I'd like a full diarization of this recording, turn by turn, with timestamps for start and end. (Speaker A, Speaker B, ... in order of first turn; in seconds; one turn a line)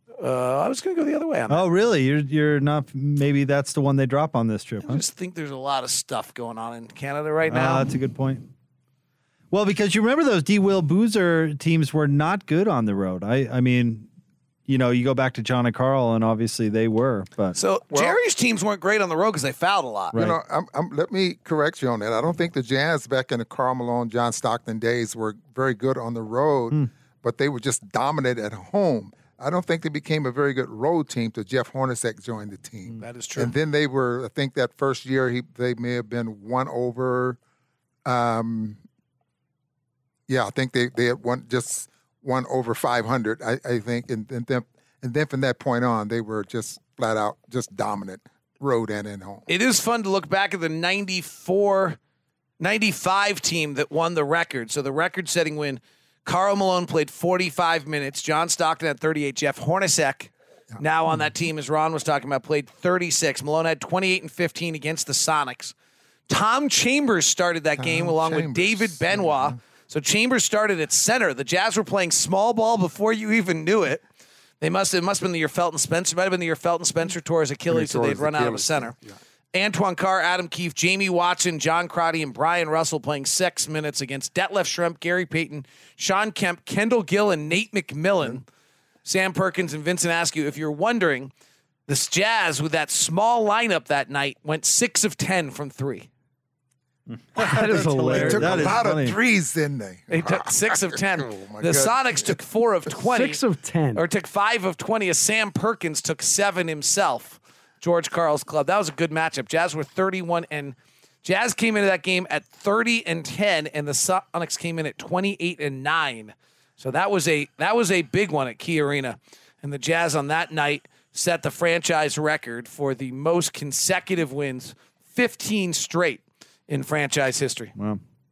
Speaker A: 0.2-1.6
Speaker B: 1.5-5.0
Speaker A: 4.8-7.9
Speaker B: 7.5-8.4
Speaker B: 9.5-14.1
Speaker B: 14.7-17.6
Speaker A: 17.6-20.2
Speaker C: 17.9-18.2
Speaker B: 20.1-20.4
Speaker C: 20.1-37.4
Speaker A: 33.0-33.5
Speaker C: 38.0-38.8
Speaker C: 40.3-49.5
Speaker A: 49.5-52.0
Speaker A: 52.6-65.7
Speaker A: 66.3-74.0
Speaker C: 67.8-69.5
Speaker A: 74.6-79.0
Speaker C: 77.7-79.2
Speaker A: 79.5-88.4
Speaker A: 89.0-91.3
Speaker A: 91.9-96.1
Speaker B: 97.1-99.2
Speaker D: 97.4-98.9
Speaker C: 97.4-102.4
Speaker A: 100.1-103.4
Speaker D: 102.9-104.0
Speaker A: 103.9-127.7
Speaker B: 127.8-128.0